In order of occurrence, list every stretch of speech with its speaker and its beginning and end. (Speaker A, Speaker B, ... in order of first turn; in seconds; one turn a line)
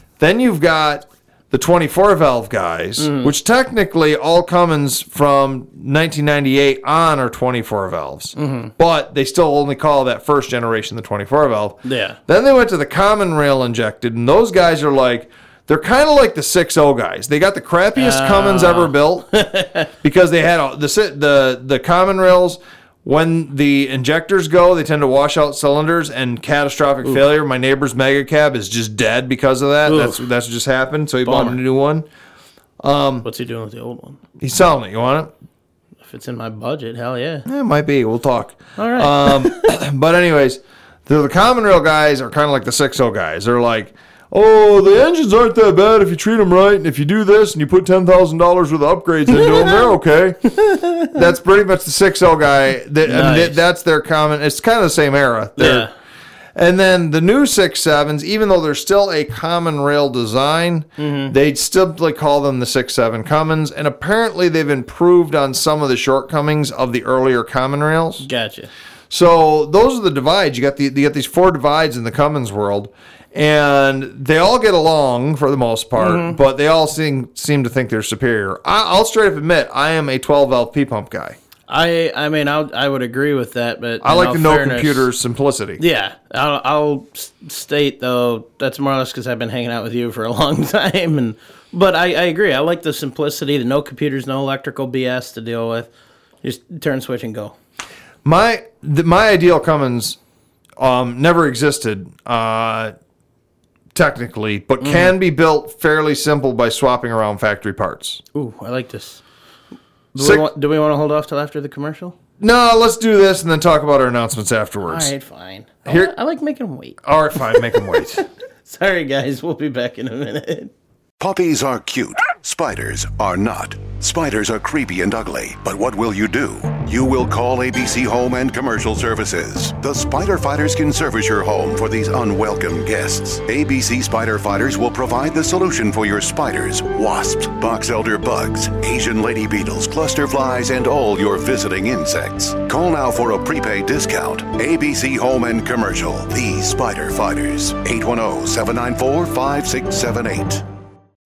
Speaker A: 0.2-19.3
Speaker B: 3.0-3.3
Speaker B: 8.4-8.7
Speaker B: 11.8-12.2
Speaker B: 17.9-19.9
Speaker A: 20.0-32.1
Speaker B: 29.9-30.2
Speaker B: 31.2-31.6
Speaker A: 32.8-33.3
Speaker B: 33.2-34.2
Speaker A: 34.4-35.3
Speaker B: 36.0-37.4
Speaker A: 37.5-50.5
Speaker B: 38.8-39.7
Speaker B: 49.3-49.9
Speaker B: 50.5-51.2
Speaker A: 51.0-55.9
Speaker B: 53.0-53.6
Speaker B: 55.6-55.9
Speaker A: 56.5-68.2
Speaker B: 61.0-61.3
Speaker B: 68.2-68.7
Speaker A: 69.1-81.4
Speaker B: 76.0-76.4
Speaker B: 81.7-85.1
Speaker A: 84.0-85.8
Speaker B: 85.8-95.9
Speaker B: 96.4-97.5
Speaker A: 98.2-100.2
Speaker A: 100.8-102.9
Speaker A: 103.9-108.2
Speaker B: 104.8-105.1
Speaker B: 108.3-109.2
Speaker A: 110.1-110.5
Speaker B: 110.1-112.2
Speaker A: 112.4-115.1
Speaker B: 114.9-118.0
Speaker A: 115.9-116.1
Speaker A: 117.0-118.2
Speaker B: 118.6-120.7
Speaker C: 121.2-150.6